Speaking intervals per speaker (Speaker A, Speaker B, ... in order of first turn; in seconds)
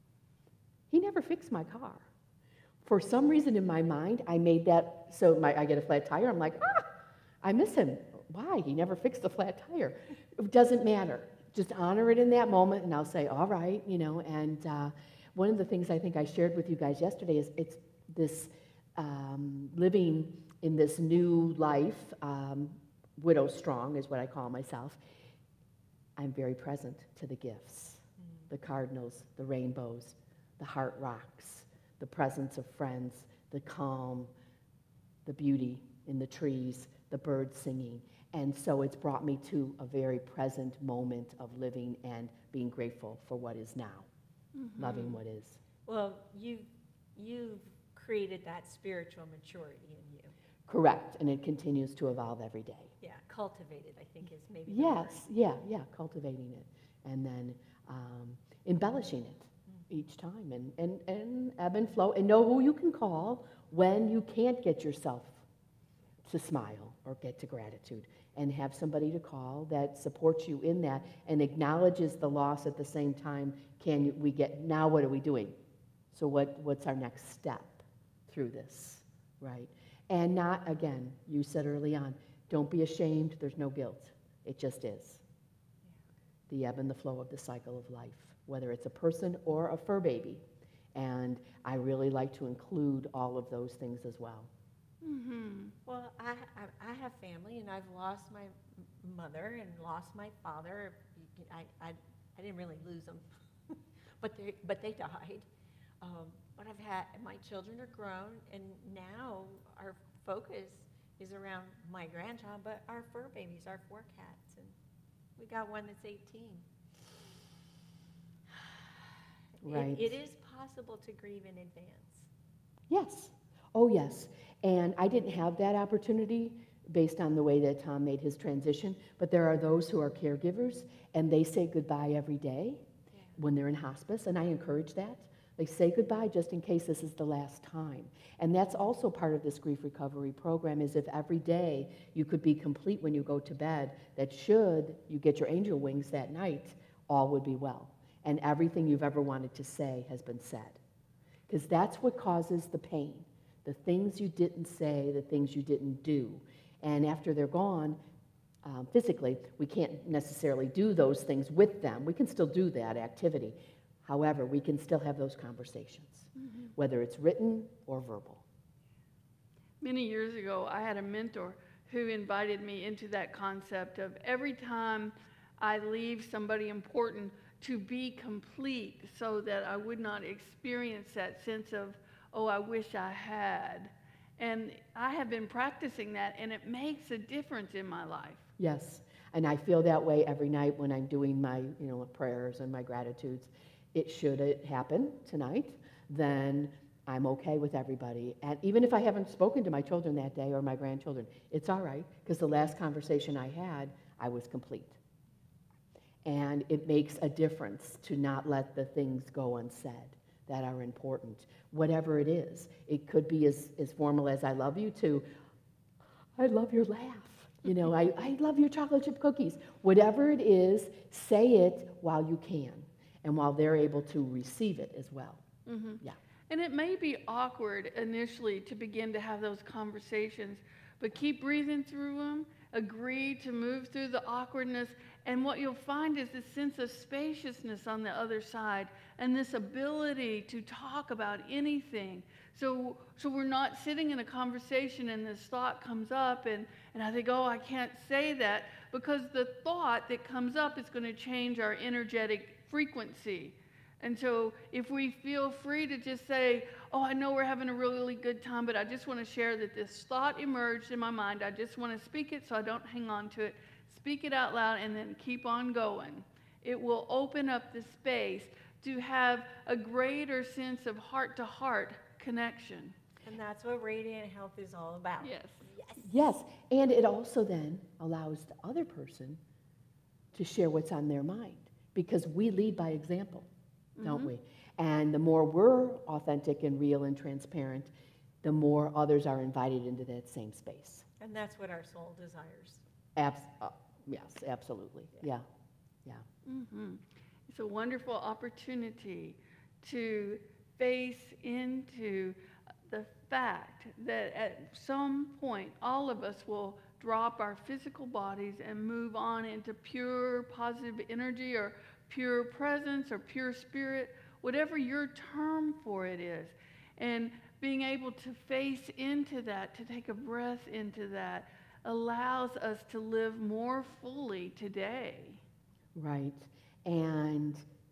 Speaker A: 0.9-2.1, 2.8-6.8, 7.4-25.0, 26.2-34.3, 35.3-44.1, 44.8-45.6, 50.7-52.9, 54.7-65.4, 66.2-75.5, 76.1-85.2, 86.5-90.4, 90.9-94.5, 119.6-120.2, 122.9-132.8, 133.4-150.8, 151.5-158.0, 158.6-168.4, 188.6-205.0, 206.2-215.2, 216.4-225.4, 276.0-279.4, 280.3-283.5, 284.0-287.9, 288.4-291.1, 293.2-295.4, 325.9-327.6
Speaker B: 44.5-45.2, 95.0-95.8, 166.4-166.7, 169.8-188.5, 225.7-272.9, 275.2-275.7, 284.0-284.3, 296.5-325.4
Speaker C: 45.9-50.3, 53.0-55.2, 95.9-105.5, 106.0-114.8, 115.4-116.7, 119.6-122.3, 273.2-276.3, 291.2-292.8